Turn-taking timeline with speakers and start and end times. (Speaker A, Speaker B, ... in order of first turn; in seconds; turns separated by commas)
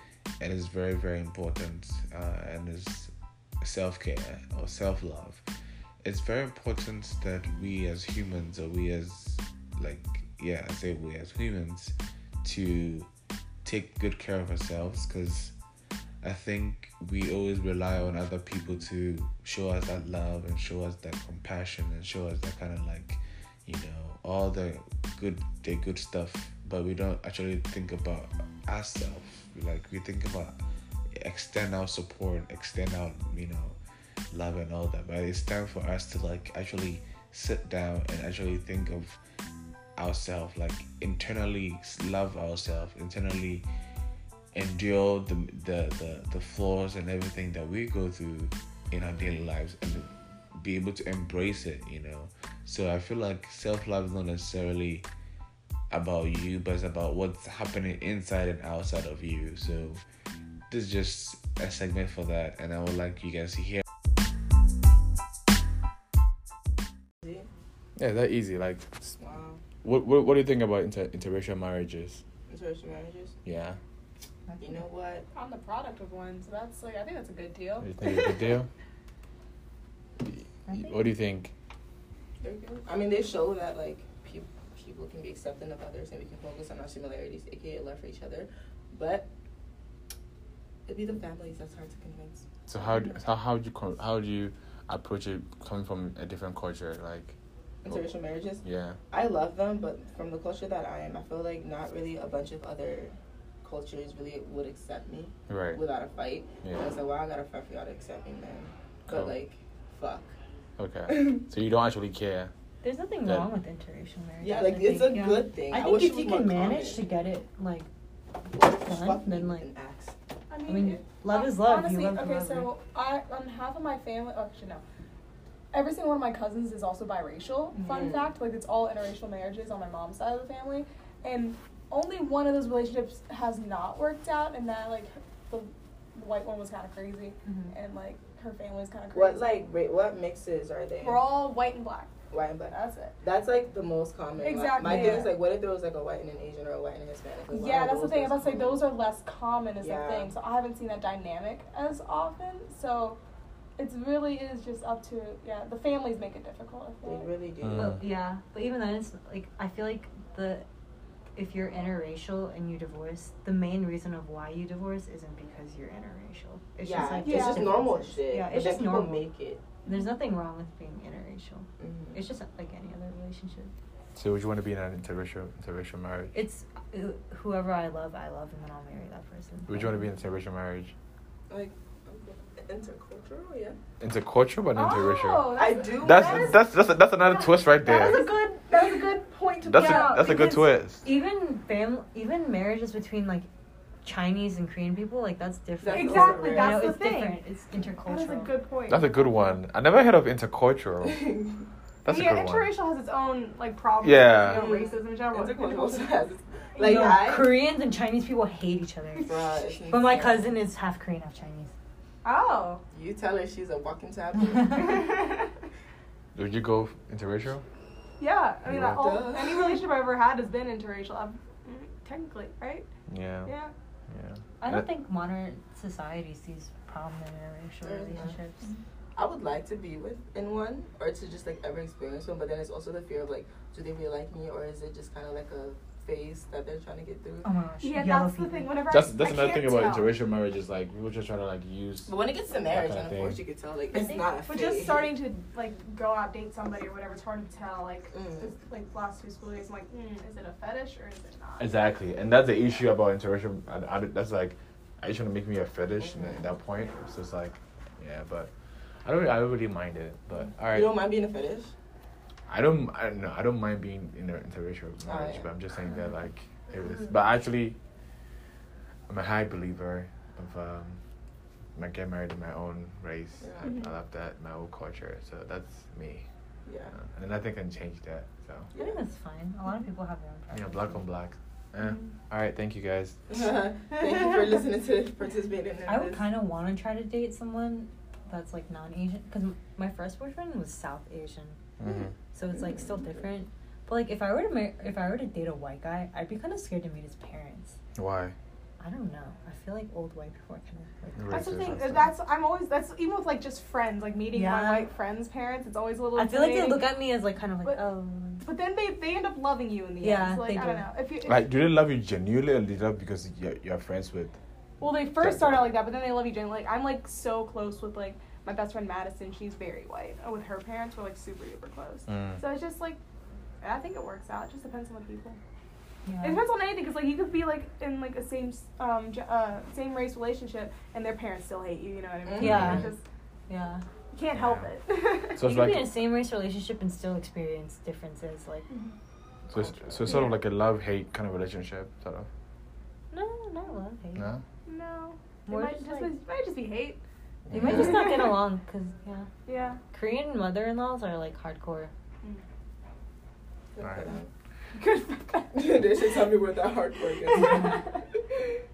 Speaker A: 0.4-5.4, Speaker A: 6.0-13.1, Speaker A: 13.6-15.6, Speaker A: 16.2-30.6, Speaker A: 31.1-33.8, Speaker A: 34.3-39.2, Speaker A: 40.0-43.7, Speaker A: 44.5-55.1, Speaker A: 55.9-60.0, Speaker A: 60.7-63.8, Speaker B: 68.0-69.2, Speaker C: 69.2-69.6, Speaker B: 69.8-72.2, Speaker C: 72.5-73.3, Speaker B: 73.5-73.8, Speaker C: 74.6-75.3, Speaker D: 75.3-78.4, Speaker B: 77.8-78.7, Speaker B: 80.2-81.5, Speaker C: 82.4-89.3, Speaker C: 90.9-92.5, Speaker B: 92.7-97.3, Speaker C: 97.8-110.3, Speaker B: 98.6-99.0, Speaker B: 105.5-105.8, Speaker B: 109.1-109.3, Speaker B: 110.8-112.5, Speaker E: 112.8-117.9, Speaker C: 114.4-117.1, Speaker C: 118.5-120.1, Speaker E: 118.5-119.7, Speaker D: 120.5-124.8, Speaker E: 120.7-122.7, Speaker D: 125.7-139.6, Speaker C: 127.8-128.3, Speaker E: 137.4-137.7, Speaker C: 139.1-141.2, Speaker D: 141.0-142.2, Speaker C: 142.3-148.9, Speaker D: 142.7-143.2, Speaker D: 144.4-145.3, Speaker E: 144.9-145.2, Speaker D: 147.5-153.2, Speaker C: 149.8-150.3, Speaker D: 153.8-157.3, Speaker C: 157.0-158.0, Speaker B: 157.6-158.0, Speaker E: 157.8-160.7, Speaker E: 161.3-169.3, Speaker C: 166.8-169.7, Speaker D: 167.2-167.7, Speaker E: 169.8-173.7, Speaker C: 171.8-172.2, Speaker B: 174.2-176.4, Speaker E: 176.3-180.0, Speaker B: 179.7-180.9, Speaker C: 181.5-183.8, Speaker B: 184.0-188.3, Speaker D: 184.7-186.7, Speaker C: 185.5-186.6, Speaker D: 187.2-190.6, Speaker C: 188.7-190.1, Speaker B: 189.7-191.1, Speaker E: 189.8-193.5, Speaker E: 194.0-198.6, Speaker C: 195.8-196.9, Speaker D: 195.9-197.4, Speaker D: 198.0-199.3, Speaker B: 198.9-201.2, Speaker C: 201.0-201.6, Speaker B: 202.1-202.8, Speaker D: 202.1-206.1, Speaker B: 204.0-204.7, Speaker C: 204.5-207.7, Speaker E: 206.8-211.7, Speaker D: 206.8-207.1, Speaker C: 209.2-210.5, Speaker D: 212.2-212.8, Speaker C: 212.9-215.2, Speaker D: 214.7-215.5, Speaker B: 216.3-217.6, Speaker D: 218.2-222.9, Speaker B: 218.7-219.0, Speaker C: 218.8-219.8, Speaker B: 223.1-223.5, Speaker D: 223.4-223.7, Speaker B: 224.1-224.9, Speaker E: 224.6-228.7, Speaker C: 227.8-228.4, Speaker C: 229.2-237.5, Speaker E: 237.4-238.7, Speaker D: 237.8-240.2, Speaker B: 238.9-242.1, Speaker C: 242.1-245.1, Speaker B: 242.7-243.4, Speaker D: 244.4-251.7, Speaker C: 248.1-248.5, Speaker B: 251.6-258.5, Speaker B: 259.0-260.9, Speaker C: 260.7-261.7, Speaker B: 262.5-267.8, Speaker C: 265.1-265.5, Speaker B: 269.1-271.0, Speaker B: 271.8-276.3, Speaker C: 273.4-273.8, Speaker D: 273.6-273.9, Speaker C: 276.7-276.9, Speaker B: 276.9-278.7, Speaker C: 278.8-279.0, Speaker E: 278.8-281.0, Speaker B: 280.5-283.2, Speaker C: 283.3-286.4, Speaker E: 285.9-291.6, Speaker B: 291.8-292.1, Speaker E: 292.3-297.8, Speaker C: 292.6-293.2, Speaker B: 297.9-298.4, Speaker E: 298.8-301.6, Speaker B: 301.1-302.1, Speaker D: 301.3-306.9, Speaker E: 304.3-304.9, Speaker E: 306.1-308.5, Speaker D: 308.4-311.5, Speaker E: 310.0-310.9, Speaker B: 311.2-314.4, Speaker D: 314.8-323.0, Speaker B: 315.1-315.7, Speaker B: 322.1-322.4, Speaker D: 323.6-325.4, Speaker E: 326.1-326.4, Speaker D: 326.2-333.0, Speaker C: 332.2-332.7, Speaker E: 332.4-332.9, Speaker B: 332.4-332.9, Speaker E: 333.5-333.8, Speaker D: 334.1-335.4, Speaker B: 334.4-334.7, Speaker B: 335.4-335.9, Speaker E: 335.4-338.7, Speaker D: 338.7-338.9, Speaker B: 339.5-342.3, Speaker E: 339.6-340.0, Speaker D: 340.1-340.4, Speaker E: 343.1-344.3, Speaker B: 344.2-344.4, Speaker D: 344.7-347.0, Speaker E: 345.5-346.1, Speaker B: 347.5-348.0, Speaker E: 347.5-349.3, Speaker D: 347.6-348.1, Speaker D: 349.5-349.8, Speaker E: 349.9-351.9, Speaker C: 353.8-354.3, Speaker B: 353.8-354.1, Speaker D: 354.7-355.6, Speaker C: 355.5-358.4, Speaker D: 357.2-357.9